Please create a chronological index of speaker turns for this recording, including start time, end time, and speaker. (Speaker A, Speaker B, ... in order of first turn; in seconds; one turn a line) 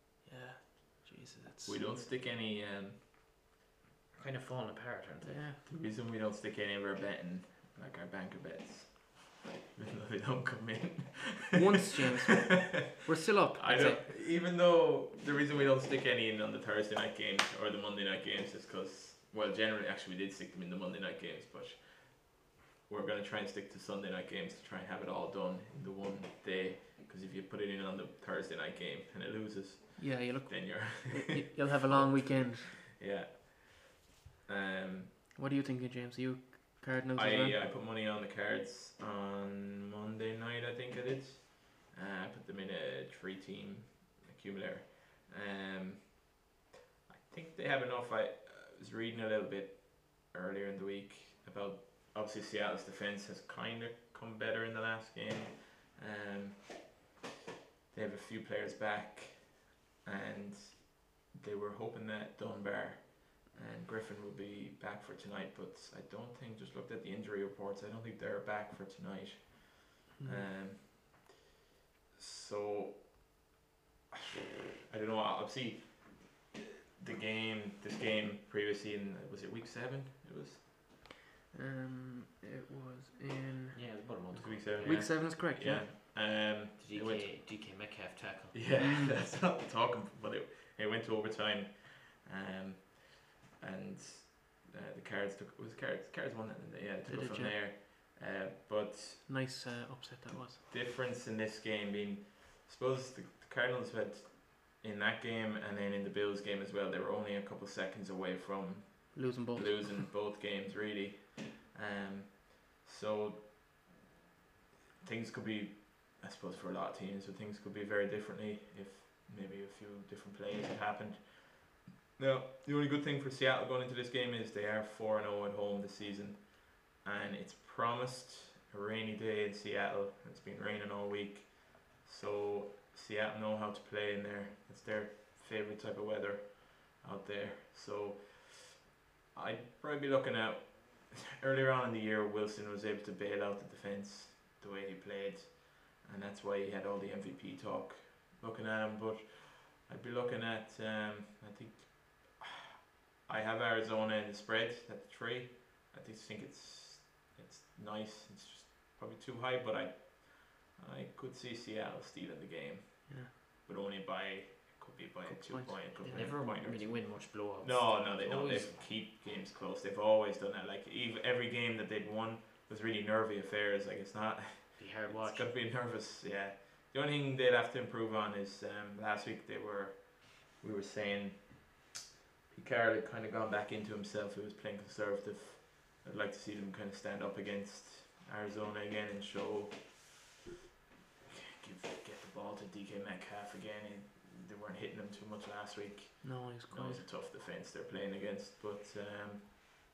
Speaker A: 0.2-2.1
Speaker B: 1.6-3.1
Speaker C: 4.1-5.4
Speaker A: 5.2-5.6
Speaker B: 5.7-11.8
Speaker A: 11.5-14.0
Speaker B: 12.4-12.8
Speaker B: 13.6-35.1
Speaker A: 30.0-32.8
Speaker A: 35.4-37.6
Speaker B: 37.2-46.4
Speaker B: 47.1-57.0
Speaker B: 57.9-71.3
Speaker A: 70.2-70.5
Speaker B: 72.1-73.3
Speaker B: 74.1-80.7
Speaker A: 81.5-83.8
Speaker C: 83.7-85.2
Speaker B: 84.3-87.3
Speaker A: 84.8-85.9
Speaker C: 86.8-88.6
Speaker B: 88.5-99.3
Speaker A: 88.8-89.1
Speaker A: 97.0-97.5
Speaker A: 99.3-100.6
Speaker B: 100.7-113.5
Speaker A: 109.1-110.1
Speaker B: 115.0-152.7
Speaker B: 153.2-181.9
Speaker A: 165.2-166.3
Speaker C: 166.1-168.8
Speaker C: 174.8-175.5
Speaker B: 182.5-190.1
Speaker B: 191.3-199.5
Speaker A: 196.2-197.1